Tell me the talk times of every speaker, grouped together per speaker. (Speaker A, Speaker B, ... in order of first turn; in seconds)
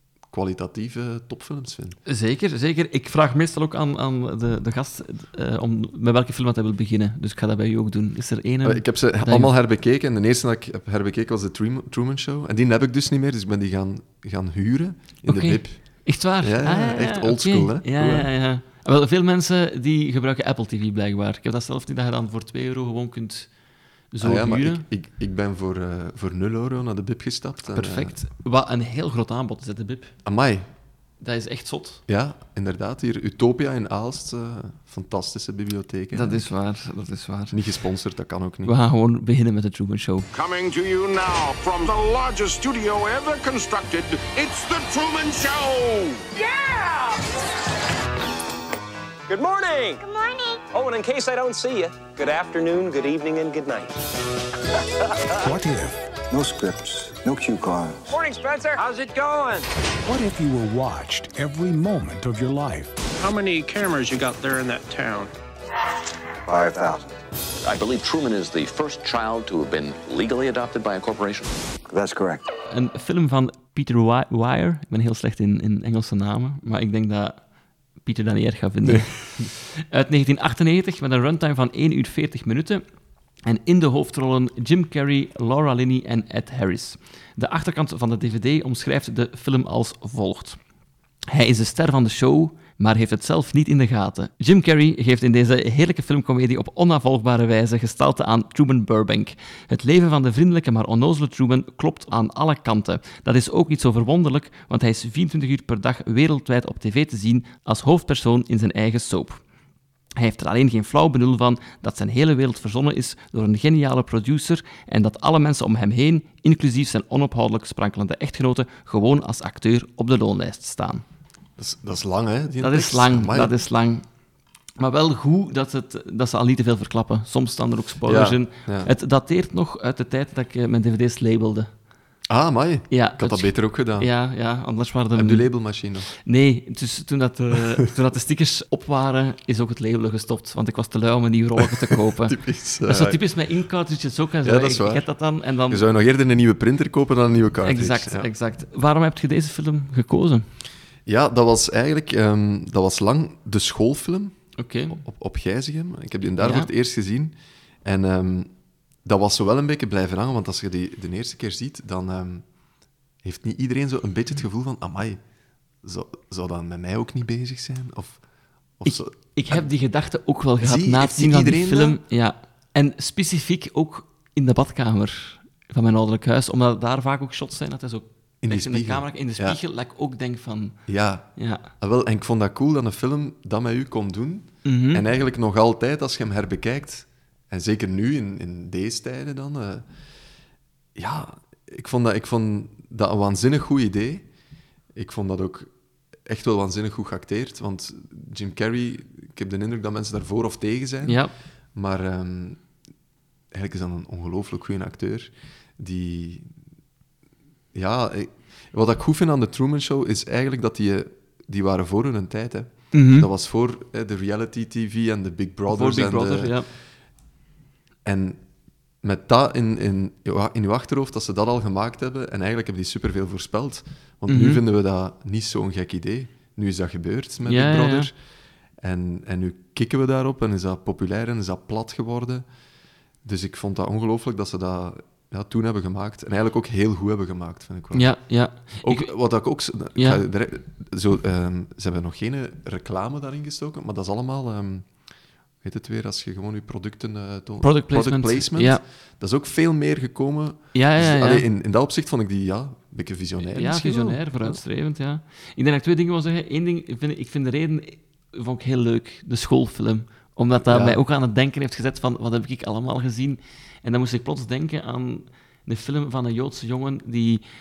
Speaker A: 0.3-2.0, 8.6-18.3, 24.2-28.1, 30.2-30.7, 32.1-36.5, 37.5-38.7, 78.8-79.5, 121.6-123.5, 128.1-128.9, 132.3-134.1, 135.2-136.1, 141.6-143.2, 144.4-145.1, 145.7-148.3, 151.1-154.4, 154.9-158.5, 159.0-162.4, 163.2-165.2, 165.8-168.2, 168.8-169.7, 170.6-172.0, 178.4-179.6, 180.9-189.9, 191.0-194.2, 194.9-195.7, 196.2-201.2, 201.8-202.6, 203.5-206.5, 207.7-216.5, 218.1-218.4, 219.0-228.1, 228.8-232.5, 233.2-238.1, 238.8-244.9, 245.6-254.6, 260.7-261.0
Speaker B: 2.1-9.5, 15.3-23.5, 24.1-24.8, 27.7-30.1, 31.2-32.0, 36.1-37.6, 38.6-40.3, 72.7-77.4, 78.0-82.8, 83.5-90.6, 91.3-109.4, 110.2-121.0, 122.6-124.0, 124.8-131.7, 132.9-135.5, 136.2-145.8, 147.6-150.4, 154.6-155.0, 156.4-156.7, 168.8-180.8, 181.4-181.7, 184.7-185.0, 201.1-201.3, 212.9-213.3, 215.7-216.7, 224.3-224.6, 227.4-228.1, 237.9-239.1, 239.9-240.2, 247.6-248.8, 250.7-251.5, 253.5-267.4
Speaker C: 40.3-46.3
Speaker D: 46.3-47.2, 49.3-54.0, 58.1-59.6
Speaker E: 55.4-56.0, 60.0-62.9
Speaker F: 56.3-58.0, 66.5-67.1, 71.9-72.5
Speaker G: 63.2-65.3
Speaker H: 67.7-71.6